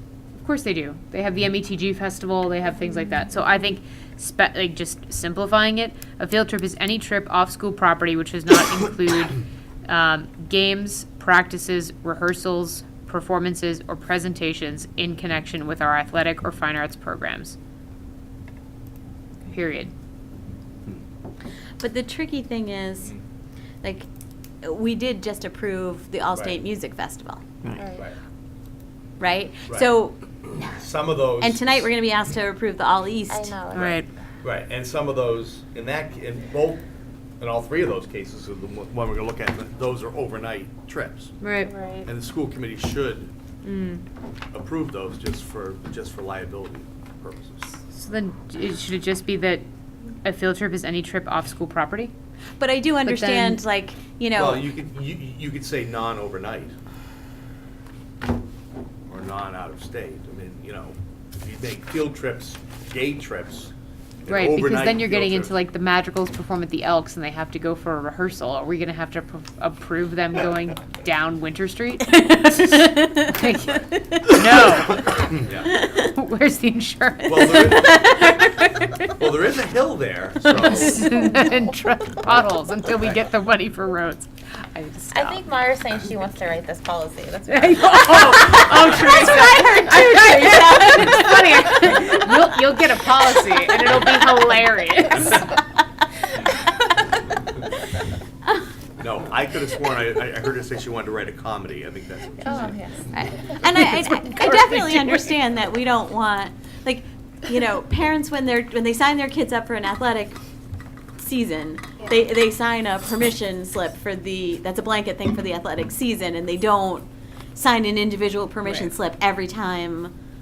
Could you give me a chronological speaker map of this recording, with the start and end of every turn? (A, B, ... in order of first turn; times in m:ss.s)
0:00.4-0:17.6 A
0:19.5-0:19.9 A
0:21.8-0:23.1 B
0:23.8-0:24.1 B
0:24.6-0:27.4 B
0:27.8-0:28.1 C
0:29.2-0:30.2 B
0:30.6-0:31.8 D
0:31.4-0:33.6 B
0:33.3-0:34.0 C
0:33.7-0:34.1 A
0:34.4-0:36.8 D
0:37.4-0:41.4 D
0:41.4-0:41.7 A
0:41.6-0:42.1 C
0:42.1-0:43.3 D
0:43.6-0:44.0 A
0:44.5-0:47.8 D
0:47.9-0:49.6 A
0:50.2-0:52.1 A
0:52.6-0:54.7 B
0:53.0-0:53.6 A
0:54.4-0:56.8 D
0:59.1-1:03.7 D
1:04.2-1:05.6 D
1:04.3-1:19.1 A
1:12.2-1:13.2 B
1:15.2-1:15.7 D
1:17.3-1:18.1 D
1:19.2-1:21.3 D
1:20.4-1:25.4 A
1:25.1-1:29.0 C
1:27.5-1:35.6 A
1:28.6-1:31.7 B
1:39.0-1:42.8 D
1:42.4-1:43.9 C
1:43.1-1:50.4 B
1:44.6-1:45.1 A
1:51.2-2:00.1 B